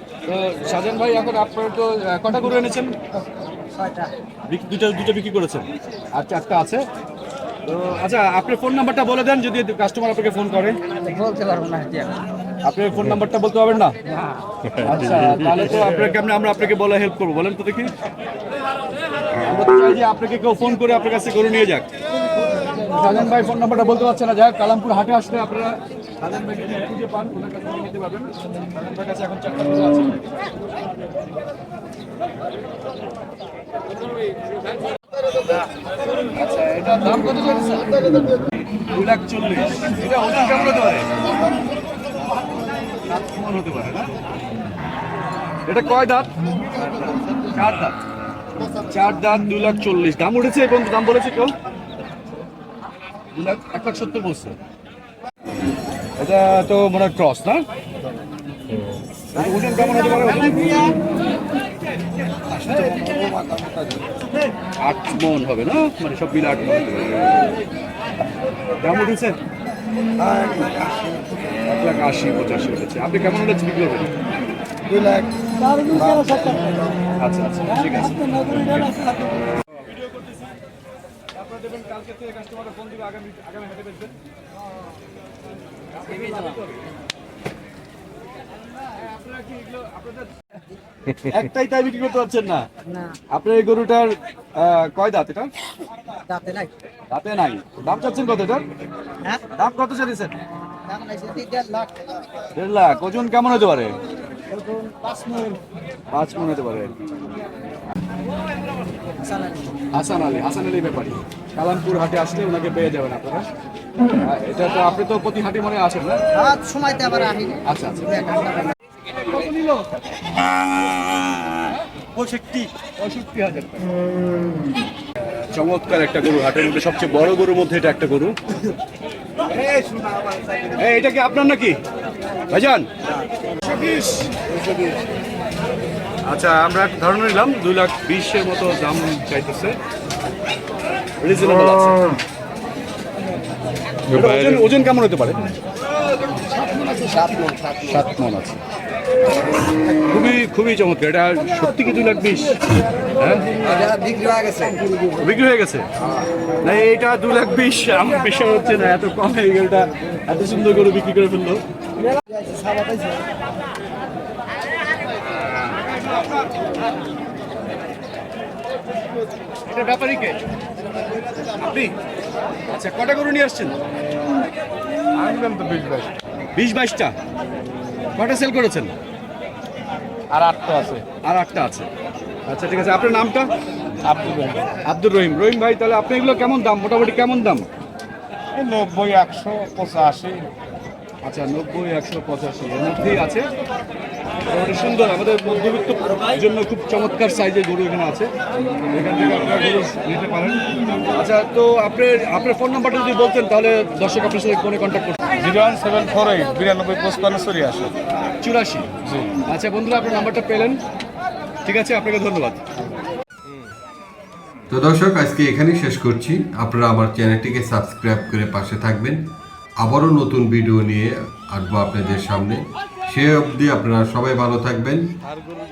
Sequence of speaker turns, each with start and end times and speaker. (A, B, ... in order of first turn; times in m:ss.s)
0:00.3-0:03.0 A
0:03.7-0:04.1 B
0:04.5-0:06.9 A
0:07.7-0:10.8 A
0:11.0-0:12.2 B
0:12.6-0:14.0 A
0:14.8-0:17.9 A
0:19.4-0:21.9 A
0:22.8-0:30.3 A
0:36.3-0:38.0 A
0:38.9-0:41.1 A
0:42.9-0:44.1 A
0:45.7-0:46.3 A
0:47.4-0:48.0 A
0:48.9-0:51.6 A
0:53.3-0:54.6 A
0:56.2-0:57.6 A
0:59.3-1:00.9 A
1:02.9-1:03.8 C
1:04.8-1:07.4 A
1:08.8-1:09.4 A
1:10.3-1:10.8 B
1:11.6-1:14.1 A
1:14.9-1:16.8 B
1:17.2-1:18.9 A
1:19.8-1:20.4 A
1:21.3-1:24.2 A
1:25.9-1:26.8 A
1:28.8-1:32.7 A
1:32.9-1:33.2 B
1:33.3-1:35.5 A
1:36.3-1:36.7 B
1:37.1-1:38.7 A
1:39.5-1:40.3 A
1:40.9-1:42.0 B
1:42.6-1:44.0 A
1:44.6-1:45.6 B
1:46.1-1:46.9 A
1:49.2-1:49.8 B
1:49.9-1:53.5 A
1:54.2-1:56.2 A
1:56.4-1:57.6 B
1:57.7-2:00.0 A
1:58.3-1:58.6 B
2:01.6-2:03.9 A
2:05.3-2:08.4 A
2:10.7-2:11.8 A
2:12.5-2:12.9 A
2:13.6-2:14.4 A
2:16.2-2:19.8 A
2:21.2-2:22.2 A
2:24.1-2:25.5 A
2:27.0-2:27.4 B
2:27.8-2:28.6 A
2:30.1-2:33.6 A
2:33.7-2:34.8 C
2:33.8-2:34.4 B
2:35.2-2:35.9 A
2:36.6-2:41.6 A
2:45.7-2:46.3 A
2:49.7-2:50.4 A
2:51.6-2:51.9 A
2:52.7-2:53.8 A
2:55.2-2:56.1 D
2:56.6-2:57.1 A
2:58.2-2:59.0 A
3:00.3-3:01.0 D
3:01.2-3:01.9 A
3:02.5-3:03.5 A
3:04.1-3:04.6 D
3:04.8-3:07.6 A
3:08.6-3:10.4 D
3:11.2-3:13.5 A
3:14.5-3:18.3 A
3:18.9-3:25.2 A
3:25.4-3:27.9 D
3:28.4-3:28.9 A
3:29.5-3:30.8 A
3:31.7-3:32.6 A
3:34.7-3:39.2 E
3:39.8-3:45.1 E